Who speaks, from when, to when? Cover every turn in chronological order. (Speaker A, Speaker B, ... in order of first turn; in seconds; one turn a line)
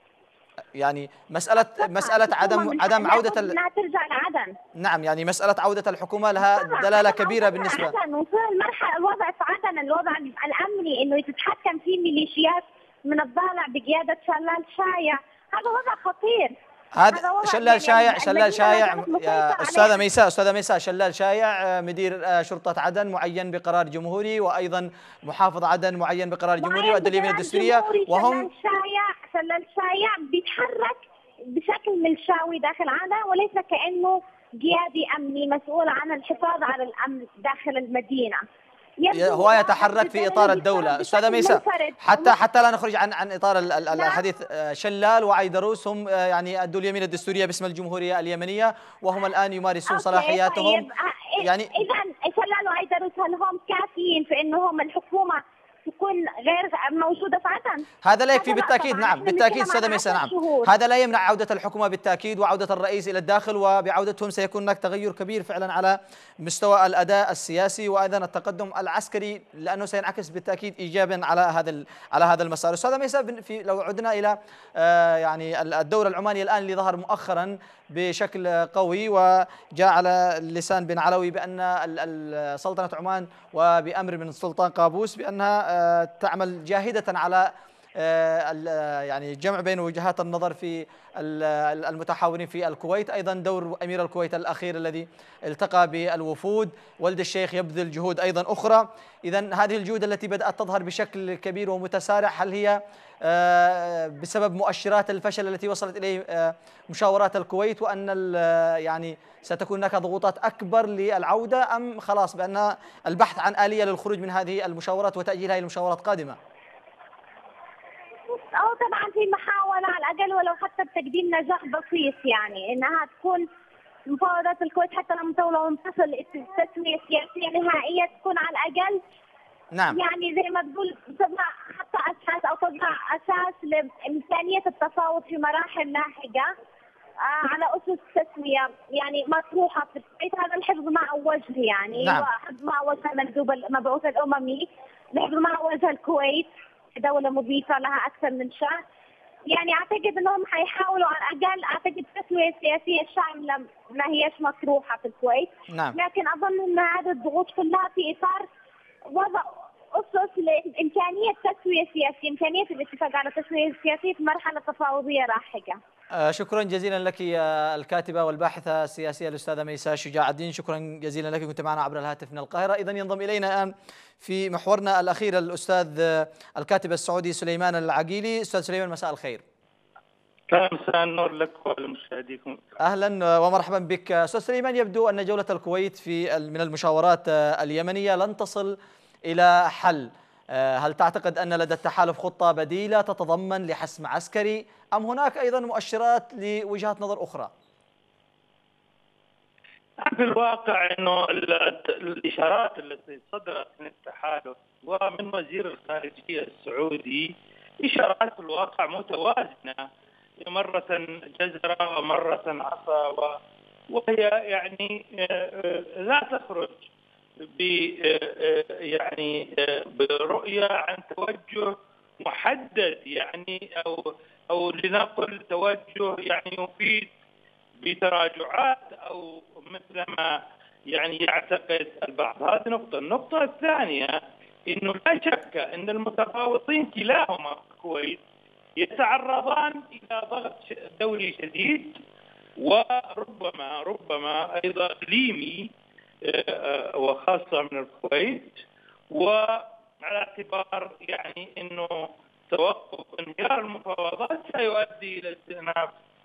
Speaker A: 0.8-3.6
Speaker B: 1.6-4.6
Speaker A: 4.8-7.9
Speaker B: 6.4-16.5
Speaker A: 16.9-28.5
Speaker B: 17.1-20.0
Speaker B: 26.6-31.0
Speaker B: 31.5-38.4
Speaker B: 39.0-42.4
Speaker A: 39.1-50.9
Speaker B: 43.9-44.2
Speaker B: 49.9-60.7
Speaker A: 51.4-51.7
Speaker A: 58.0-116.4
Speaker B: 118.3-123.5
Speaker B: 124.1-129.0
Speaker B: 129.9-136.5
Speaker B: 137.3-148.8
Speaker A: 142.0-142.3
Speaker B: 149.5-158.5
Speaker A: 155.7-155.9
Speaker B: 159.1-165.8
Speaker A: 166.2-179.4
Speaker C: 180.5-182.7
Speaker A: 182.8-197.5
Speaker C: 200.0-209.9
Speaker C: 210.4-213.4
Speaker C: 213.9-216.9
Speaker C: 217.4-227.1
Speaker C: 227.8-230.4
Speaker C: 230.9-238.2
Speaker C: 238.8-242.0
Speaker C: 242.6-245.7
Speaker C: 246.2-248.6
Speaker C: 249.1-255.9